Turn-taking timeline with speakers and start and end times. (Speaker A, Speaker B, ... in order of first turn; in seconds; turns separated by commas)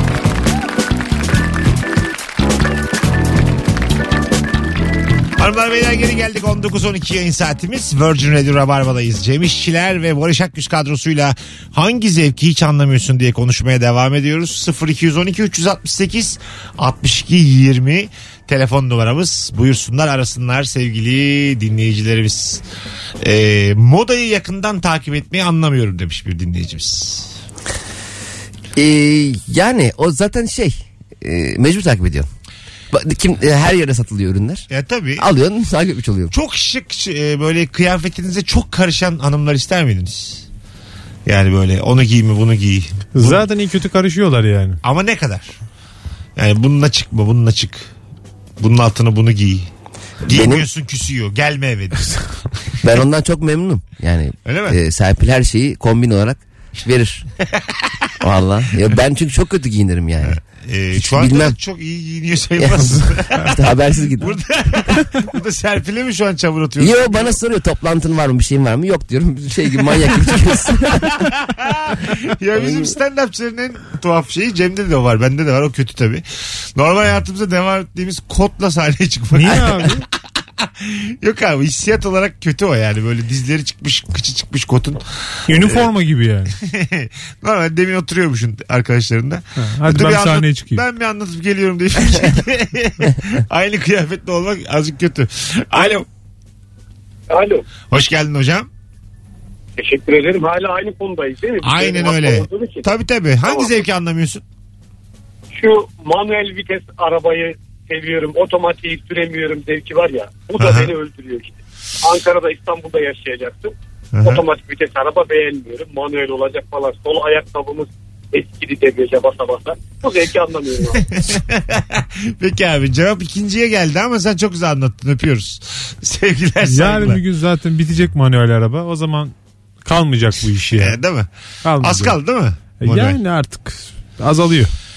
Speaker A: 5.4-22.6, Speaker A: 23.2-27.3, Speaker B: 28.8-32.3, Speaker B: 32.9-34.6, Speaker A: 34.7-35.2, Speaker B: 35.2-36.3, Speaker A: 36.3-40.5, Speaker A: 41.3-43.4, Speaker C: 43.1-44.8, Speaker A: 44.8-45.5, Speaker A: 46.4-47.9, Speaker A: 48.6-49.7, Speaker A: 50.2-52.2, Speaker B: 50.3-50.6, Speaker B: 52.8-57.3, Speaker A: 54.5-54.8, Speaker B: 58.2-60.4, Speaker A: 60.2-63.6, Speaker B: 60.9-61.6, Speaker B: 62.6-64.4, Speaker A: 64.2-67.4, Speaker B: 66.8-71.3, Speaker A: 71.0-76.2, Speaker B: 72.5-73.0, Speaker A: 76.8-80.0, Speaker C: 79.3-80.0, Speaker A: 80.6-85.9, Speaker C: 85.5-86.5, Speaker A: 86.6-96.1, Speaker C: 89.6-90.8, Speaker D: 97.3-97.6, Speaker A: 97.9-98.7, Speaker D: 99.8-102.9, Speaker A: 101.6-104.4, Speaker D: 105.5-121.1, Speaker A: 110.6-110.9, Speaker A: 114.1-114.5, Speaker A: 121.1-127.2, Speaker C: 126.6-129.3, Speaker C: 129.8-131.0, Speaker A: 130.8-131.3, Speaker C: 131.6-132.2, Speaker A: 131.8-133.2, Speaker C: 132.8-134.7